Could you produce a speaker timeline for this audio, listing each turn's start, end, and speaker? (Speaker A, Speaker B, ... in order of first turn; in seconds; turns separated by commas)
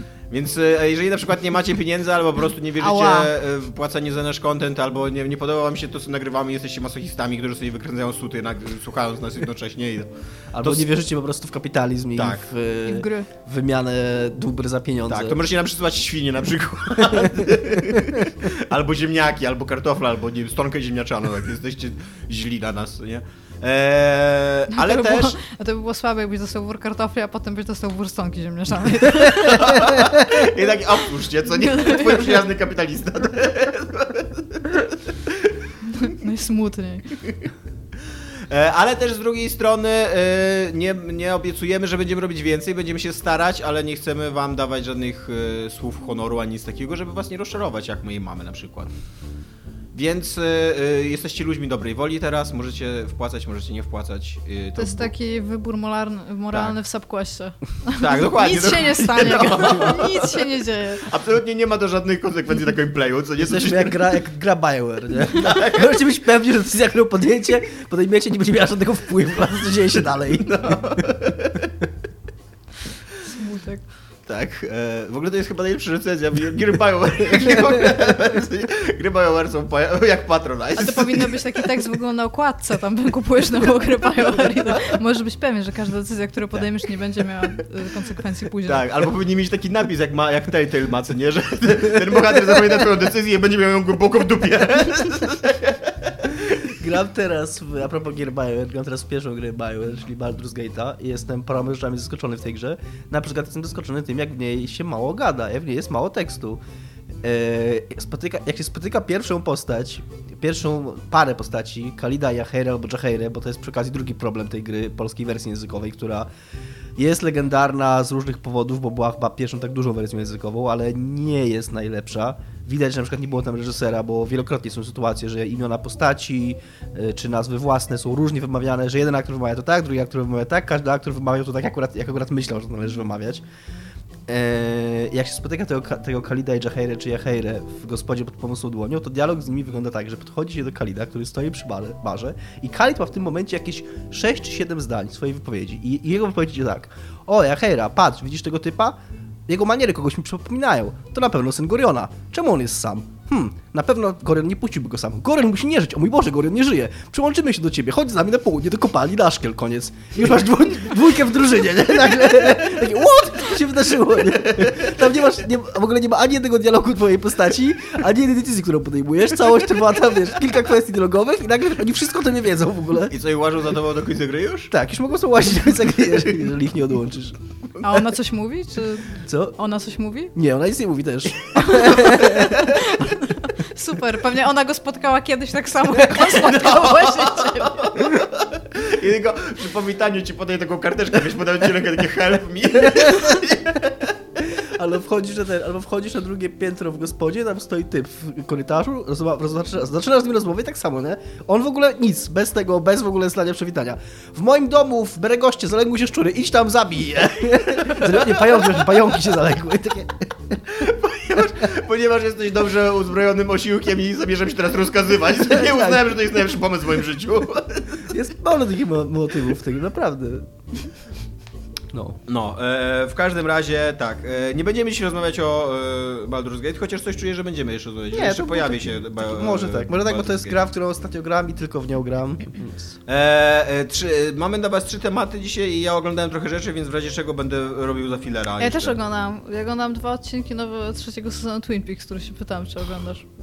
Speaker A: 0.3-10.8, Speaker B: 2.8-3.3, Speaker C: 10.5-15.4, Speaker A: 12.2-12.4, Speaker B: 12.8-13.3, Speaker A: 15.1-25.4, Speaker B: 24.7-30.1, Speaker A: 29.2-34.8, Speaker B: 31.5-32.4, Speaker B: 36.0-37.1, Speaker A: 38.5-48.9, Speaker A: 49.9-55.1, Speaker B: 54.8-61.0, Speaker A: 56.5-56.8, Speaker A: 57.9-60.5, Speaker A: 61.0-64.0, Speaker C: 63.4-71.0, Speaker A: 65.3-65.9, Speaker A: 70.3-71.7, Speaker B: 73.2-73.8, Speaker A: 74.3-81.4, Speaker B: 80.8-88.8, Speaker A: 88.7-96.3, Speaker C: 96.4-106.6, Speaker C: 107.2-116.3, Speaker C: 117.0-133.4, Speaker C: 134.3-173.1, Speaker A: 173.1-174.7, Speaker C: 174.7-177.3, Speaker B: 177.8-180.3, Speaker C: 179.2-179.6, Speaker C: 180.3-182.7, Speaker B: 181.5-187.9, Speaker A: 186.2-194.1, Speaker C: 194.5-210.5, Speaker A: 210.7-218.0, Speaker C: 215.5-216.2, Speaker C: 218.0-220.5, Speaker C: 221.9-222.2, Speaker A: 222.3-230.6, Speaker C: 228.1-232.9, Speaker A: 233.1-239.0, Speaker B: 238.6-243.2